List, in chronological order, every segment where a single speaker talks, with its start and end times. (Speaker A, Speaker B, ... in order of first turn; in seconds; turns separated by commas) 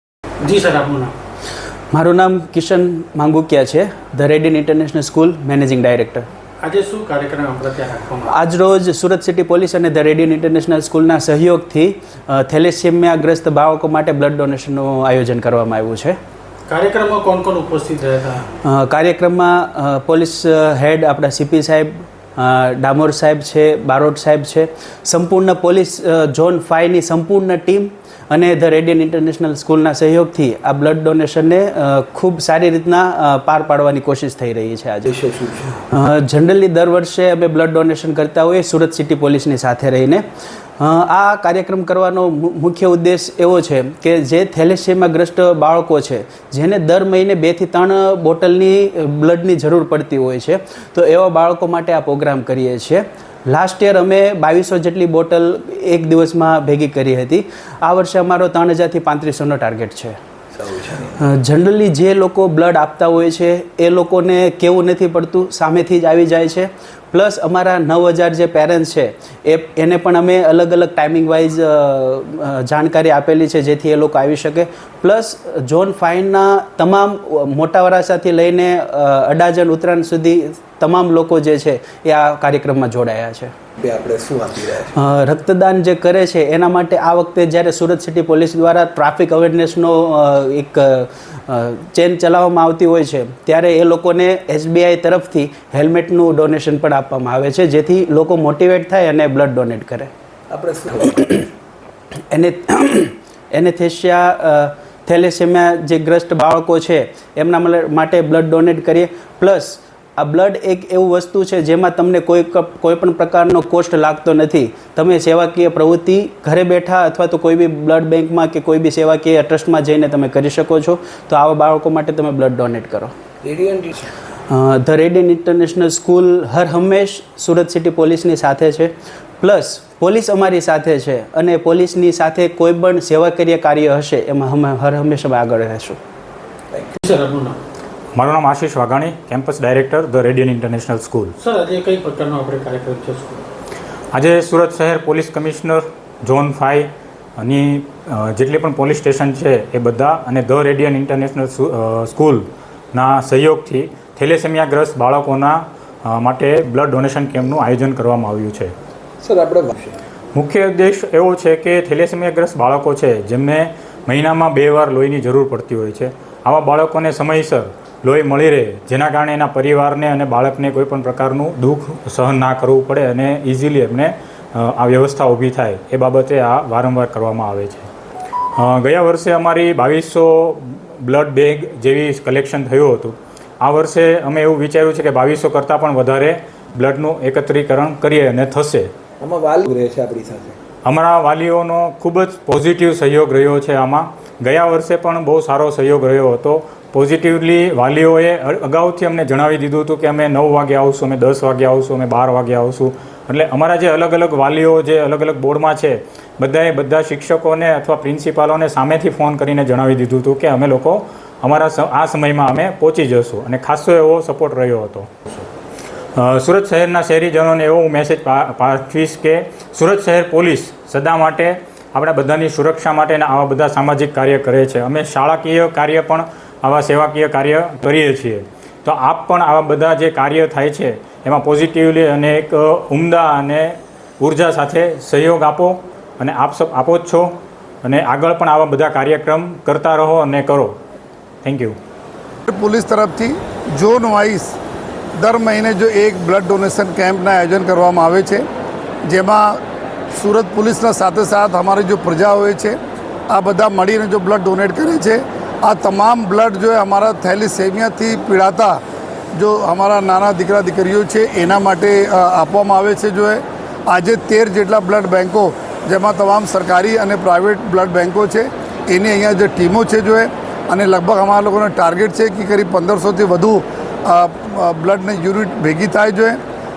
Speaker A: 0.4-1.1, Speaker B: 1.9-6.3, Speaker A: 6.6-8.3, Speaker B: 8.3-16.2, Speaker A: 16.7-18.5, Speaker B: 18.6-35.2, Speaker C: 35.2-35.7, Speaker B: 35.9-40.2, Speaker B: 40.8-60.1, Speaker C: 60.6-61.1, Speaker B: 61.2-83.5, Speaker C: 83.8-84.9, Speaker B: 85.0-100.1, Speaker C: 100.5-101.2, Speaker B: 101.0-101.5, Speaker B: 102.3-123.1, Speaker C: 123.4-124.0, Speaker B: 124.5-136.0, Speaker A: 137.0-137.6, Speaker D: 138.1-141.3, Speaker A: 141.4-143.4, Speaker D: 144.1-146.9, Speaker D: 147.4-158.7, Speaker C: 159.2-160.0, Speaker D: 160.3-177.9, Speaker D: 178.6-188.9, Speaker C: 189.2-190.6, Speaker D: 190.8-215.4, Speaker D: 216.2-233.7, Speaker D: 234.2-237.3, Speaker D: 237.8-240.8, Speaker D: 241.4-241.8, Speaker E: 242.5-244.6, Speaker E: 245.2-248.4, Speaker E: 249.1-249.6, Speaker E: 250.1-252.8, Speaker E: 253.3-258.8, Speaker E: 259.3-276.4